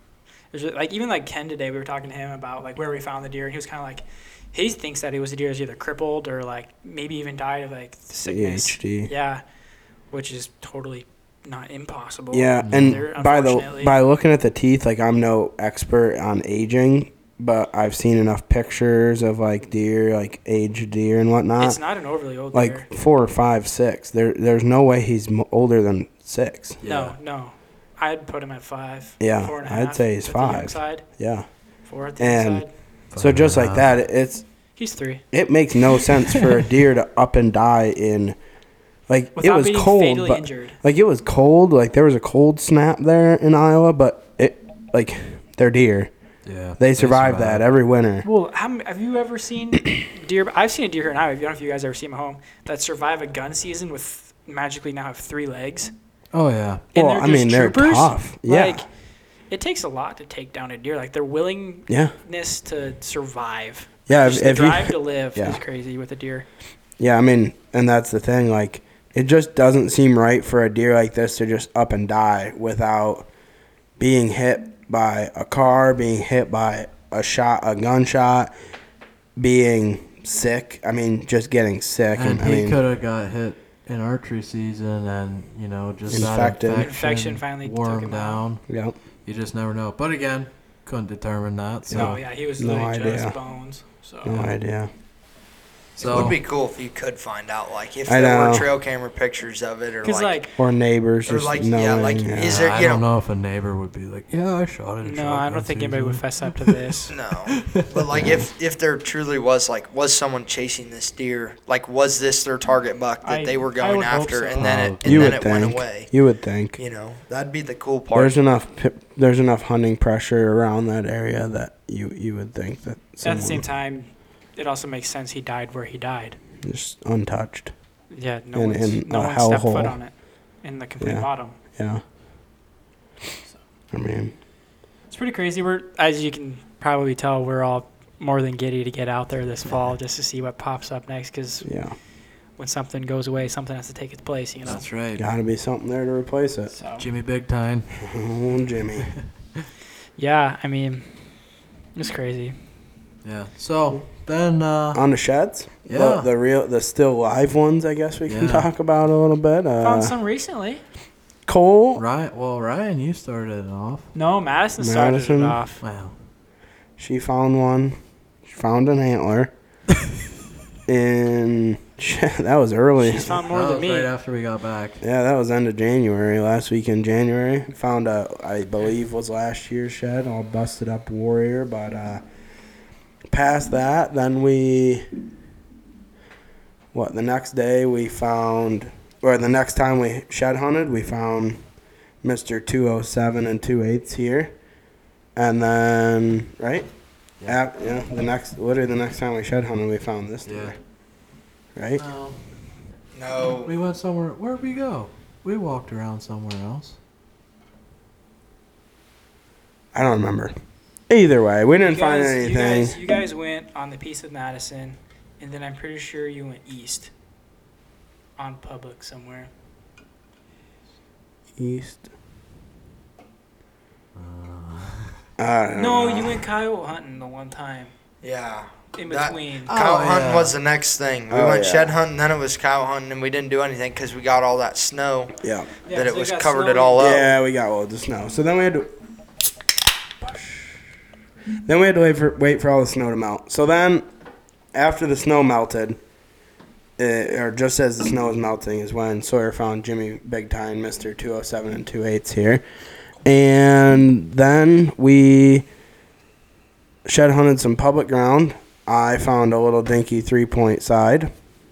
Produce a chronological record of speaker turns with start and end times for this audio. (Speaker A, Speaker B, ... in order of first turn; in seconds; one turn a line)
Speaker A: 0.5-9.4
Speaker B: 8.3-9.1
Speaker A: 10.1-14.0
Speaker B: 12.3-21.8
Speaker C: 12.6-13.0
Speaker A: 21.6-22.9
Speaker B: 22.5-26.8
Speaker C: 26.8-27.1
Speaker A: 26.8-31.1
Speaker B: 29.2-31.5
Speaker A: 31.9-32.7
Speaker B: 32.2-34.5
Speaker C: 33.1-33.9
Speaker A: 34.8-35.2
Speaker B: 35.3-38.4
Speaker B: 39.1-46.1
Speaker A: 39.4-40.8
Speaker C: 46.5-47.6
Speaker B: 46.8-48.3
Speaker A: 48.2-55.9
Speaker C: 56.3-56.9
Speaker A: 56.9-58.9
Speaker B: 57.0-58.9
Speaker A: 59.5-66.5
Speaker B: 61.9-62.1
Speaker B: 64.1-65.6
Speaker B: 67.0-73.3
Speaker B: 74.0-78.5
Speaker B: 79.4-82.8
Speaker C: 82.2-88.7
Speaker B: 86.1-86.9
Speaker A: 86.8-88.4
Speaker B: 88.7-89.0
Speaker C: 89.2-92.2
Speaker B: 91.9-93.4
Speaker A: 91.9-94.3
Speaker B: 94.2-94.9
Speaker C: 96.0-96.4
Speaker D: 96.0-100.5
Speaker B: 98.1-98.7
Speaker A: 100.0-100.5
Speaker B: 100.6-102.6
Speaker D: 101.3-103.0
Speaker C: 102.4-106.9
Speaker A: 105.0-107.2
Speaker D: 107.1-116.1
Speaker C: 107.5-108.4
Speaker A: 113.2-114.7
Speaker C: 114.6-115.4
Speaker B: 115.0-116.8
Speaker D: 116.8-118.4
Speaker B: 118.1-123.6
Speaker A: 123.2-126.4
Speaker B: 126.6-127.7
Speaker A: 128.1-131.6
Speaker B: 128.5-130.0
Speaker B: 131.0-132.0
Speaker B: 133.9-134.3
Speaker A: 135.1-141.7
Speaker B: 141.6-142.0
Speaker A: 142.6-144.8
Speaker C: 144.7-145.2
Speaker B: 145.2-146.7
Speaker A: 146.7-147.1
Speaker C: 147.0-147.9
Speaker B: 148.0-149.1
Speaker C: 149.0-149.2
Speaker A: 150.2-151.1
Speaker A: 151.9-152.6
Speaker C: 153.2-155.0
Speaker B: 154.9-160.2
Speaker C: 155.9-156.3
Speaker C: 158.3-158.7
Speaker A: 159.8-160.8
Speaker B: 161.5-162.0
Speaker C: 162.0-164.1
Speaker A: 164.1-165.8
Speaker B: 164.8-165.6
Speaker C: 165.8-166.1
Speaker B: 167.0-169.5
Speaker B: 170.9-173.4
Speaker A: 173.0-174.1
Speaker C: 173.5-175.0
Speaker B: 175.0-182.2
Speaker B: 183.3-185.1
Speaker B: 186.9-191.7
Speaker B: 192.2-194.5
Speaker B: 195.4-196.9
Speaker B: 197.5-200.8
Speaker C: 200.5-200.7
Speaker B: 201.8-202.0
Speaker C: 202.0-202.4
Speaker D: 203.2-203.7
Speaker C: 203.6-207.0
Speaker B: 209.9-210.5
Speaker B: 211.1-213.0
Speaker A: 211.8-217.1
Speaker A: 218.4-219.5
Speaker B: 221.6-222.1
Speaker C: 224.2-225.2
Speaker B: 225.4-226.4
Speaker A: 225.8-227.9
Speaker D: 228.2-235.4
Speaker A: 229.0-229.7
Speaker C: 229.7-230.6
Speaker B: 231.3-232.0
Speaker B: 235.4-235.7
Speaker A: 235.8-237.2
Speaker D: 235.9-237.3
Speaker B: 237.0-238.9
Speaker B: 240.2-240.8
Speaker B: 241.7-244.1
Speaker B: 244.7-246.0
Speaker B: 247.0-252.6
Speaker B: 253.2-255.7
Speaker B: 257.1-261.3